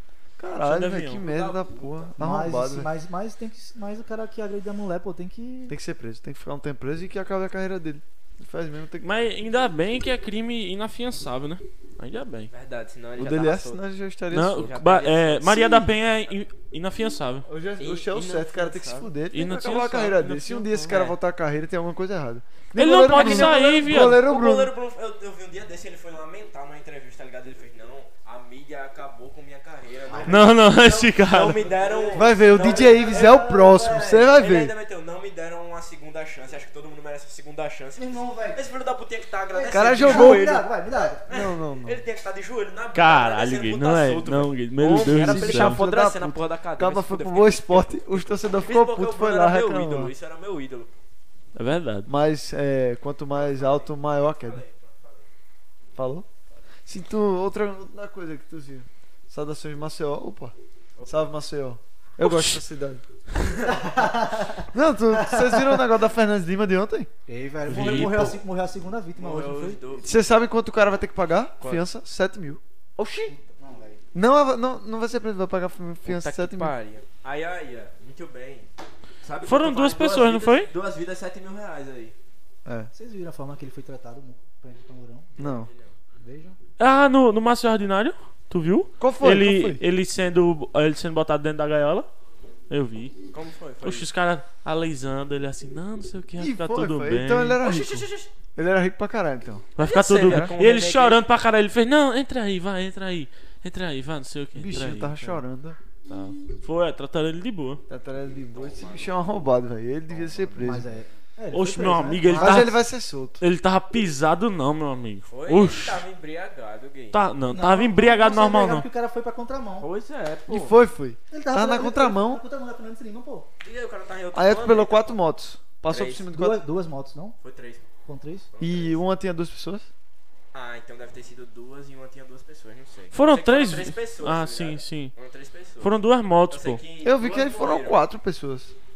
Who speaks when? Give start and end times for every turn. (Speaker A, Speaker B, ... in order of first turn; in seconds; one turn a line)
Speaker A: 0.4-2.9
Speaker B: 0.6-1.2
Speaker C: 1.1-2.1
Speaker D: 2.2-5.7
Speaker A: 5.7-9.1
Speaker B: 9.0-12.5
Speaker C: 12.5-13.8
Speaker A: 13.2-14.8
Speaker B: 14.3-17.4
Speaker C: 14.5-15.9
Speaker A: 17.4-24.7
Speaker C: 17.8-19.1
Speaker B: 19.3-21.0
Speaker C: 20.9-21.1
Speaker B: 22.7-24.2
Speaker C: 23.1-30.6
Speaker D: 30.1-34.3
Speaker B: 30.3-31.6
Speaker C: 31.2-51.0
Speaker A: 32.1-34.7
Speaker D: 38.0-38.6
Speaker D: 39.5-41.2
Speaker A: 39.7-40.5
Speaker A: 41.3-42.0
Speaker B: 42.9-45.8
Speaker A: 45.0-50.1
Speaker B: 51.5-52.1
Speaker A: 52.0-54.6
Speaker C: 53.3-55.3
Speaker A: 56.0-56.2
Speaker A: 56.9-60.5
Speaker C: 61.0-61.3
Speaker A: 61.0-63.0
Speaker C: 63.3-63.8
Speaker D: 63.6-65.8
Speaker A: 64.7-67.1
Speaker D: 67.3-69.8
Speaker B: 67.7-68.4
Speaker A: 67.8-68.3
Speaker C: 69.2-70.1
Speaker A: 70.0-72.6
Speaker C: 71.6-71.8
Speaker C: 73.0-73.3
Speaker D: 73.2-74.0
Speaker A: 74.1-76.7
Speaker C: 76.0-78.7
Speaker C: 79.2-82.1
Speaker B: 79.4-80.7
Speaker A: 82.6-82.9
Speaker D: 82.9-85.4
Speaker C: 85.4-85.9
Speaker A: 85.4-85.7
Speaker D: 86.2-86.6
Speaker B: 86.8-92.1
Speaker A: 89.0-89.8
Speaker B: 92.7-93.2
Speaker C: 93.3-94.1
Speaker B: 93.8-97.6
Speaker A: 96.4-99.7
Speaker C: 97.6-98.3
Speaker B: 99.8-105.4
Speaker C: 99.8-101.2
Speaker A: 100.2-100.5
Speaker A: 104.5-105.8
Speaker B: 106.1-107.8
Speaker A: 107.9-110.9
Speaker C: 108.5-109.5
Speaker C: 110.1-110.7
Speaker D: 110.6-112.7
Speaker B: 111.5-112.8
Speaker A: 112.3-113.4
Speaker B: 113.4-116.0
Speaker C: 115.3-117.2
Speaker B: 117.1-118.8
Speaker D: 117.5-119.9
Speaker C: 119.8-120.8
Speaker A: 120.5-122.4
Speaker D: 121.3-123.5
Speaker C: 123.6-125.2
Speaker A: 124.3-126.6
Speaker C: 125.9-126.3
Speaker D: 126.3-127.3
Speaker C: 127.4-127.9
Speaker D: 128.1-128.5
Speaker C: 128.5-129.0
Speaker A: 128.6-129.9
Speaker C: 130.5-138.0
Speaker B: 133.1-135.1
Speaker B: 135.8-136.8
Speaker A: 137.0-138.7